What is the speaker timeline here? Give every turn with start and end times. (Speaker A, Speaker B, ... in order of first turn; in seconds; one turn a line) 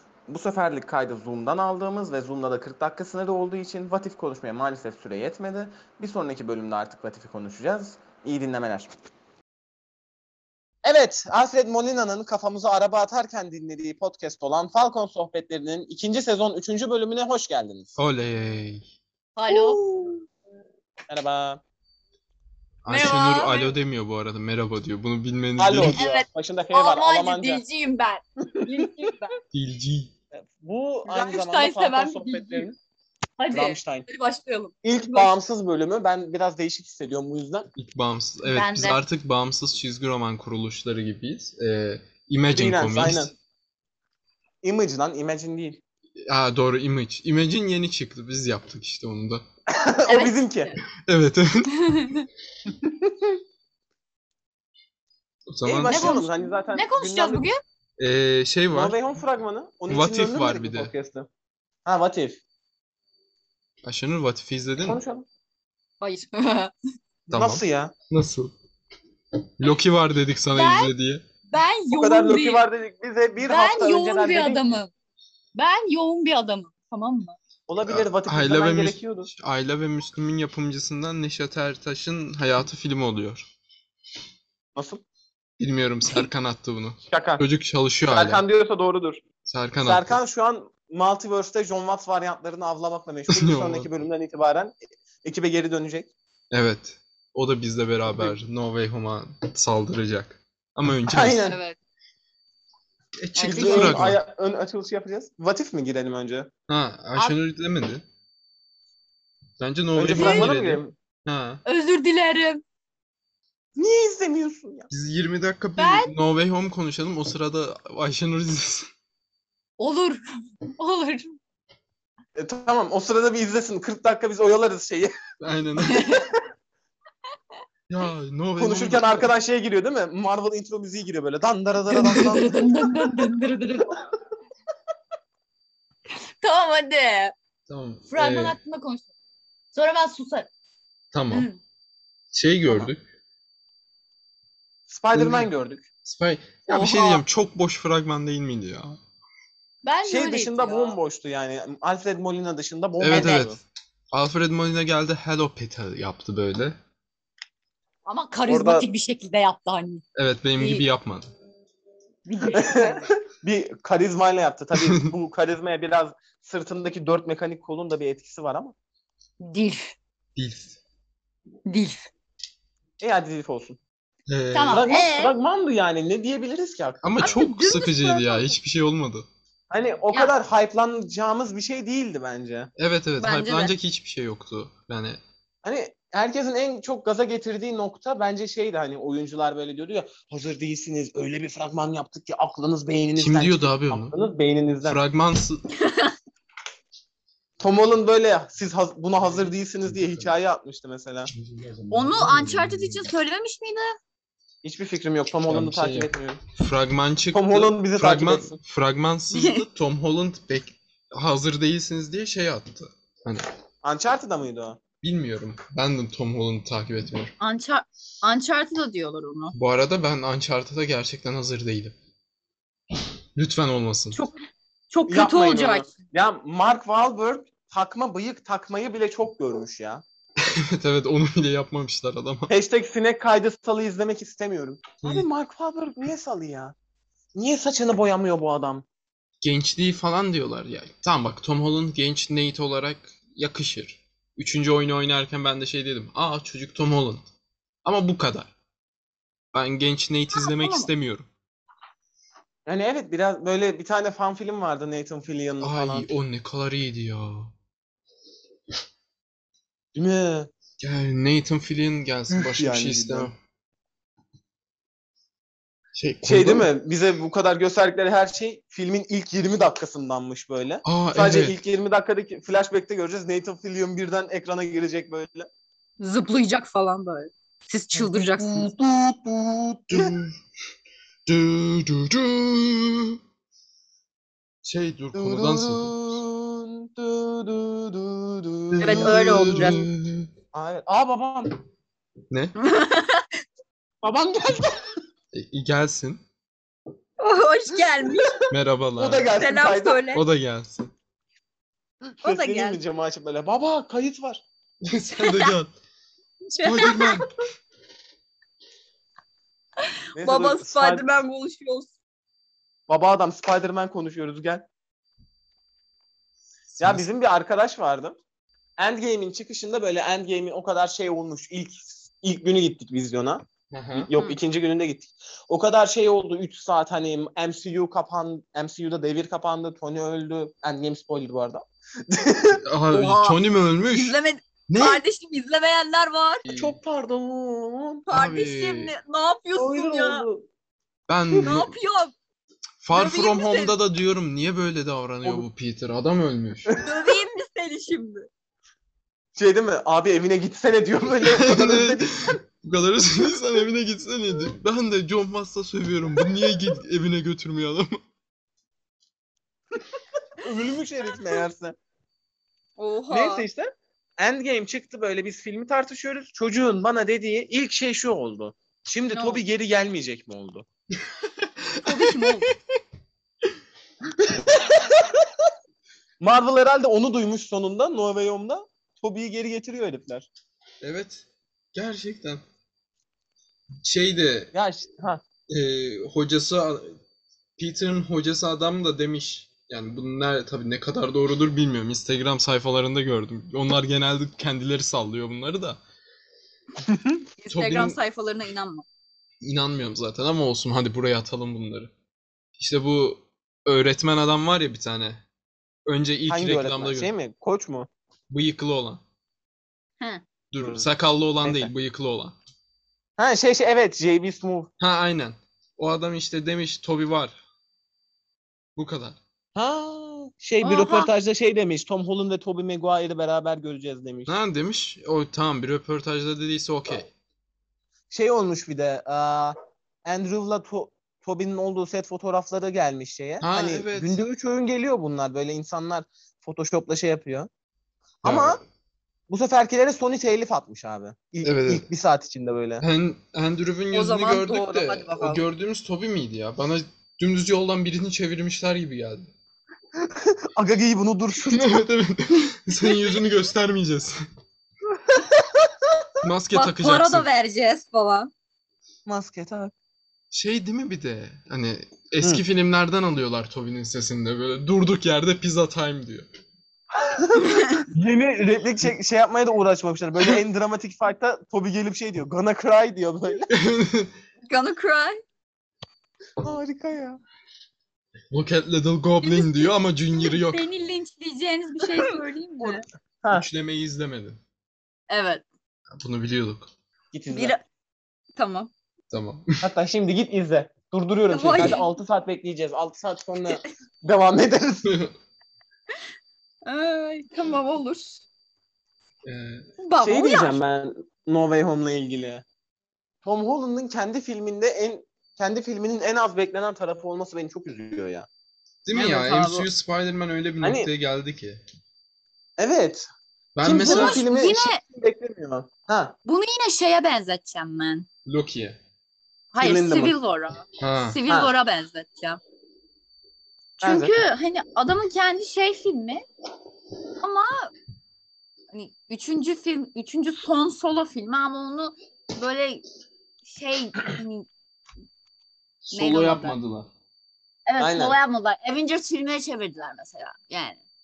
Speaker A: 0.3-8.9
Speaker A: 10.8-17.9
Speaker B: 18.0-18.9
Speaker C: 19.4-19.8
Speaker A: 19.5-20.2
Speaker A: 21.1-21.6
Speaker B: 22.8-26.0
Speaker C: 22.9-23.8
Speaker A: 25.6-27.6
Speaker C: 25.8-29.4
Speaker A: 28.6-28.9
Speaker B: 29.5-30.1
Speaker A: 30.3-32.8
Speaker C: 31.1-32.7
Speaker C: 33.4-35.4
Speaker A: 33.5-34.1
Speaker A: 34.8-37.7
Speaker B: 37.8-43.3
Speaker C: 38.4-39.0
Speaker A: 42.5-43.3
Speaker A: 44.6-45.8
Speaker B: 46.3-49.5
Speaker A: 49.7-50.7
Speaker C: 50.1-50.4
Speaker B: 51.1-52.1
Speaker C: 51.8-52.3
Speaker A: 52.7-53.4
Speaker B: 55.5-56.2
Speaker A: 55.6-57.5
Speaker C: 55.9-57.6
Speaker B: 58.0-59.0
Speaker A: 58.7-61.3
Speaker B: 59.9-60.9
Speaker A: 61.9-62.4
Speaker B: 63.8-65.0
Speaker A: 64.8-65.3
Speaker C: 66.0-66.7
Speaker A: 67.3-67.9
Speaker B: 67.3-68.6
Speaker B: 69.4-71.2
Speaker C: 70.5-70.9
Speaker C: 71.5-72.7
Speaker A: 71.9-74.8
Speaker C: 73.4-74.9
Speaker C: 75.5-77.4
Speaker A: 77.7-79.3
Speaker B: 77.8-83.5
Speaker A: 84.8-85.0
Speaker B: 85.6-88.4
Speaker A: 87.1-87.4
Speaker A: 88.1-89.2
Speaker B: 89.5-90.2
Speaker A: 89.8-96.1
Speaker B: 93.3-93.9
Speaker B: 96.5-101.4
Speaker A: 98.1-98.3
Speaker A: 101.1-101.6
Speaker C: 101.5-101.8
Speaker B: 103.2-104.2
Speaker C: 103.3-104.0
Speaker A: 103.4-106.5
Speaker B: 106.7-108.0
Speaker B: 109.6-111.6
Speaker A: 110.0-111.0
Speaker C: 110.2-110.5
Speaker C: 111.7-112.6
Speaker A: 113.8-114.9
Speaker B: 114.9-118.9
Speaker C: 115.8-116.1
Speaker C: 119.8-121.4
Speaker A: 122.4-125.1
Speaker B: 125.4-126.2
Speaker C: 125.8-126.3
Speaker B: 127.9-129.3
Speaker A: 128.6-133.3
Speaker C: 131.9-134.0
Speaker C: 136.4-137.3
Speaker B: 137.7-138.6
Speaker C: 138.1-139.1
Speaker C: 139.7-140.5
Speaker B: 141.1-141.5
Speaker C: 141.3-141.6
Speaker B: 142.3-143.0
Speaker A: 144.9-145.8
Speaker B: 145.1-145.5
Speaker B: 146.0-149.0
Speaker C: 146.7-147.2
Speaker C: 149.8-151.0
Speaker A: 150.1-153.6
Speaker B: 153.0-153.6
Speaker C: 153.1-153.5
Speaker B: 154.1-156.8
Speaker C: 158.1-160.0
Speaker A: 158.5-158.9
Speaker B: 160.2-161.3
Speaker C: 160.6-160.8
Speaker C: 162.3-163.1
Speaker A: 162.5-168.8
Speaker C: 169.4-169.9
Speaker B: 170.4-170.8
Speaker C: 171.7-172.1
Speaker A: 173.0-173.8
Speaker B: 174.3-174.9
Speaker C: 174.5-175.3
Speaker A: 174.7-177.4
Speaker B: 177.0-179.3
Speaker C: 177.2-178.6
Speaker A: 179.7-182.7
Speaker B: 182.8-185.2
Speaker C: 183.2-183.7
Speaker A: 185.6-195.0
Speaker B: 193.2-194.2
Speaker B: 194.8-195.6
Speaker C: 195.8-196.2
Speaker A: 197.6-201.3
Speaker C: 201.9-203.9
Speaker A: 204.6-206.4
Speaker B: 205.5-213.5
Speaker A: 207.3-208.6
Speaker C: 209.3-209.6
Speaker A: 213.8-214.8
Speaker B: 215.0-217.3
Speaker C: 217.4-219.5
Speaker B: 219.5-221.9
Speaker B: 223.3-224.2
Speaker C: 224.9-225.9
Speaker A: 225.1-230.0
Speaker B: 230.4-232.5
Speaker A: 232.5-236.8
Speaker B: 235.0-235.3
Speaker A: 237.3-238.8
Speaker B: 239.4-247.2
Speaker B: 247.8-248.5
Speaker B: 249.5-251.3
Speaker C: 250.3-250.9
Speaker A: 252.7-256.1
Speaker B: 255.6-257.5
Speaker A: 259.9-260.5
Speaker B: 260.8-263.3
Speaker A: 262.3-263.3
Speaker B: 265.9-266.7
Speaker A: 266.2-275.5
Speaker B: 270.9-271.6
Speaker C: 276.0-278.7
Speaker A: 277.9-280.1
Speaker B: 279.9-280.3
Speaker B: 281.3-283.2
Speaker B: 284.6-285.9
Speaker A: 285.1-289.8
Speaker B: 288.7-290.3
Speaker C: 288.8-289.9
Speaker A: 290.5-291.6
Speaker C: 292.6-293.3
Speaker A: 294.0-294.9
Speaker B: 295.3-296.2
Speaker C: 297.2-298.4
Speaker A: 298.2-298.4
Speaker B: 298.5-299.3
Speaker A: 299.0-300.1
Speaker C: 299.4-300.2
Speaker B: 300.1-300.9
Speaker A: 302.1-304.4
Speaker C: 302.2-302.8
Speaker B: 304.9-305.7
Speaker C: 305.2-305.5
Speaker C: 306.5-307.3
Speaker B: 306.6-307.3
Speaker C: 309.9-311.9
Speaker A: 310.1-311.1
Speaker A: 312.9-314.7
Speaker B: 316.7-317.1
Speaker A: 316.8-318.2
Speaker A: 318.8-323.4
Speaker B: 323.7-324.1
Speaker A: 323.9-332.6
Speaker B: 332.6-334.1
Speaker C: 332.9-333.4
Speaker C: 333.9-336.4
Speaker B: 334.7-335.0
Speaker B: 336.4-336.8
Speaker A: 336.5-338.1
Speaker C: 338.1-340.2
Speaker B: 338.1-338.9
Speaker A: 339.6-340.5
Speaker B: 341.1-341.7
Speaker C: 341.4-342.1
Speaker B: 342.8-346.8
Speaker C: 342.9-343.7
Speaker C: 346.8-348.3
Speaker A: 349.4-352.4
Speaker B: 351.2-358.0
Speaker A: 360.4-361.8
Speaker C: 362.8-363.5
Speaker A: 363.1-370.7
Speaker C: 369.1-369.4
Speaker B: 371.1-372.8
Speaker C: 371.8-372.5
Speaker A: 374.2-375.3
Speaker A: 376.2-380.3
Speaker B: 380.8-382.4
Speaker B: 383.8-384.5
Speaker A: 384.5-385.2
Speaker B: 385.5-387.0
Speaker B: 387.6-395.8
Speaker A: 396.8-397.2
Speaker C: 397.4-398.9
Speaker B: 397.5-398.0
Speaker B: 399.4-401.9
Speaker B: 402.6-405.2
Speaker B: 405.9-407.1
Speaker A: 406.3-407.9
Speaker B: 408.3-409.0
Speaker C: 410.0-410.2
Speaker B: 410.5-412.4
Speaker A: 410.6-410.9
Speaker A: 411.4-411.7
Speaker A: 413.2-414.7
Speaker B: 414.8-417.4
Speaker B: 418.8-419.2
Speaker A: 419.6-424.3
Speaker C: 420.6-421.1
Speaker B: 424.3-427.1
Speaker A: 428.1-437.5
Speaker B: 433.4-434.2
Speaker A: 438.2-438.6
Speaker B: 438.2-438.6
Speaker A: 439.3-442.9
Speaker B: 441.4-441.9
Speaker B: 442.8-449.3
Speaker C: 443.9-445.4
Speaker A: 450.0-451.8
Speaker B: 451.5-454.2
Speaker A: 455.1-456.1
Speaker B: 456.2-457.3
Speaker C: 456.5-458.3
Speaker A: 459.1-459.7
Speaker B: 460.3-466.3
Speaker A: 467.0-473.5
Speaker C: 467.4-467.9
Speaker B: 473.5-474.1
Speaker C: 474.5-475.2
Speaker A: 476.4-477.2
Speaker B: 478.3-480.6
Speaker C: 479.2-482.8
Speaker A: 482.6-483.4
Speaker B: 483.3-484.4
Speaker C: 485.1-485.4
Speaker B: 485.9-486.7
Speaker A: 487.1-487.6
Speaker C: 487.3-487.6
Speaker C: 488.4-488.7
Speaker B: 489.1-489.6
Speaker A: 489.6-494.9
Speaker C: 491.3-491.9
Speaker B: 494.9-495.1
Speaker C: 496.6-498.2
Speaker B: 499.2-499.7
Speaker C: 499.8-500.6
Speaker A: 500.0-502.4
Speaker A: 503.2-508.3
Speaker B: 508.9-511.6
Speaker C: 508.9-509.7
Speaker A: 510.6-510.9
Speaker A: 512.6-513.1
Speaker B: 513.6-514.2
Speaker A: 513.6-516.1
Speaker C: 513.8-514.8
Speaker C: 516.3-518.1
Speaker B: 518.3-518.8
Speaker C: 519.5-522.4
Speaker A: 519.6-520.2
Speaker B: 520.8-521.2
Speaker A: 521.3-521.5
Speaker C: 523.8-526.2
Speaker A: 523.8-524.1
Speaker C: 527.2-527.7
Speaker C: 528.7-532.9
Speaker C: 533.4-534.5
Speaker B: 535.8-536.9
Speaker C: 535.9-536.6
Speaker C: 537.7-540.8
Speaker A: 537.8-538.2